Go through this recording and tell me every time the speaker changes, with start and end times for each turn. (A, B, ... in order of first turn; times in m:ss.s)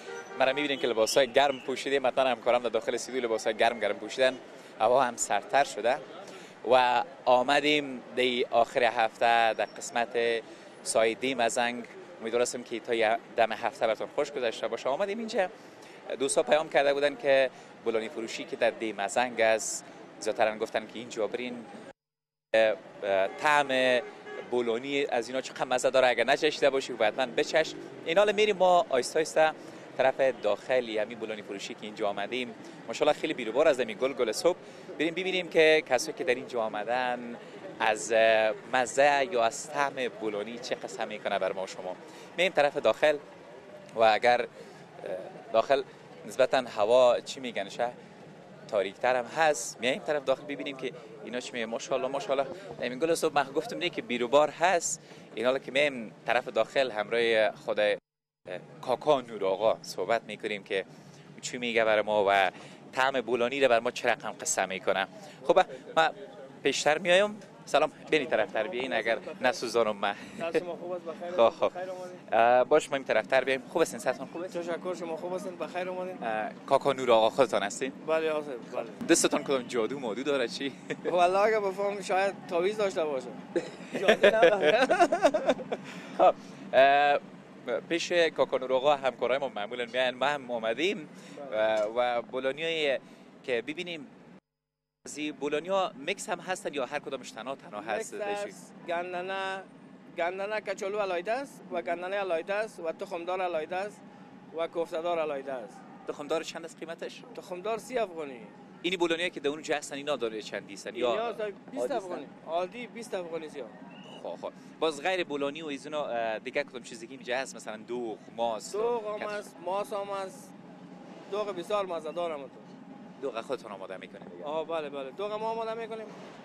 0:00.4-0:06.0 A
0:06.6-0:15.5 A
0:16.1-0:21.7 A
0:22.5-0:43.2 A
0:44.0-0:44.5 A
0:45.0-0:48.0 A
0:48.7-1:10.6 A
1:08.2-1:09.5 B
1:10.4-1:12.2 B
1:11.3-1:11.7 A
1:12.3-1:14.6 A
1:14.5-1:16.2 B
1:16.2-1:18.0 A
1:18.0-1:19.0 B
1:18.7-1:21.1 A
1:21.1-1:23.4 B
1:23.7-1:24.8 A
1:23.9-1:25.6 B
1:26.0-1:34.1 A
1:35.0-1:38.6 A
1:37.8-1:44.0 B
1:44.5-1:45.8 B
1:46.1-1:47.2 A
1:47.3-1:48.5 B
1:48.8-1:52.2 A
1:50.9-1:53.7 B
1:54.1-1:59.4 A
1:58.7-2:00.5 B
2:01.3-2:02.7 B
2:03.2-2:04.6 A
2:04.4-2:06.2 B